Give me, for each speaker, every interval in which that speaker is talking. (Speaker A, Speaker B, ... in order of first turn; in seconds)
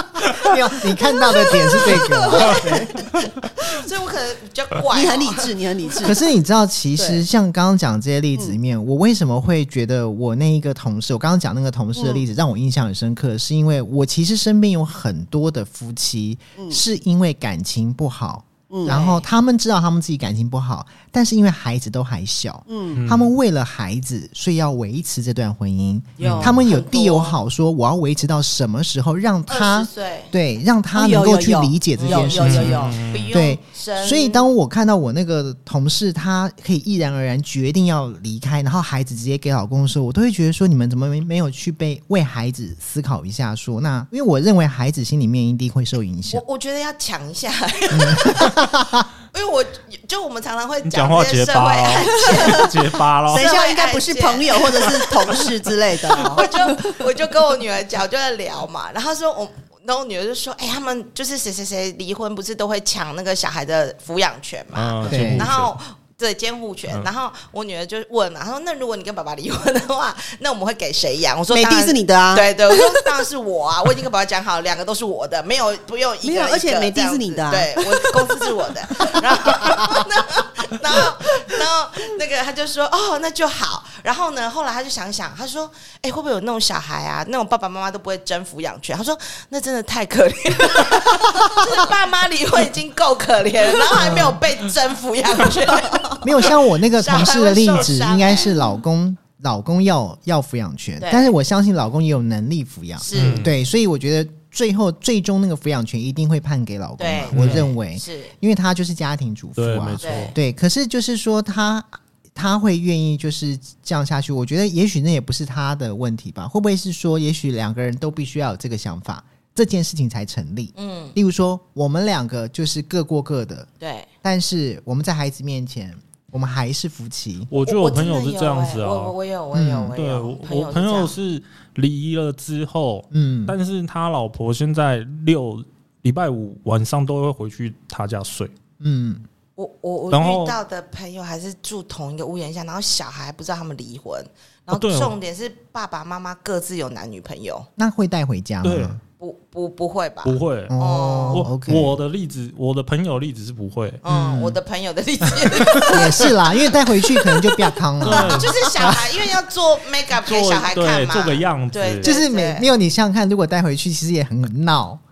Speaker A: 0.2-0.5, 1.4-5.5, 18.8-19.3, 26.2-27.4, 29.5-30.3, 32.0-34.5, 46.3-48.7, 49.3-52.8, 53.3-55.6, 56.1-98.6, 101.0-101.3, 103.0-103.5, 107.0-108.3, 110.0-110.3, 120.8-121.2, 123.8-124.1, 127.6-131.1, 139.6-147.7, 149.2-151.4, 154.0-157.5, 158.0-162.7
Speaker B: 0.3-2.9, 6.0-46.4, 47.9-49.0, 65.0-65.5, 93.9-94.4, 96.2-123.7, 124.2-127.5, 129.5-129.9, 133.1-133.6, 138.8-139.2, 147.8-149.0, 150.7-152.0, 154.0-154.6, 155.9-158.5, 162.0-165.0
Speaker C: 1.5-2.9, 4.9-6.2, 7.0-7.2, 11.9-12.2, 18.7-19.0, 22.7-23.0, 30.9-33.0, 52.2-52.8, 53.3-57.0, 71.5-73.2, 76.2-80.0
Speaker D: 22.9-23.3, 26.2-26.6, 32.4-33.3, 50.8-53.5, 64.7-65.7, 103.1-103.5, 107.3-107.7, 109.6-110.3, 127.5-129.2, 129.9-138.5, 140.1-140.6, 144.7-145.1, 148.6-148.9, 150.2-150.7, 151.3-154.0, 155.4-156.0, 158.0-159.3, 160.1-162.1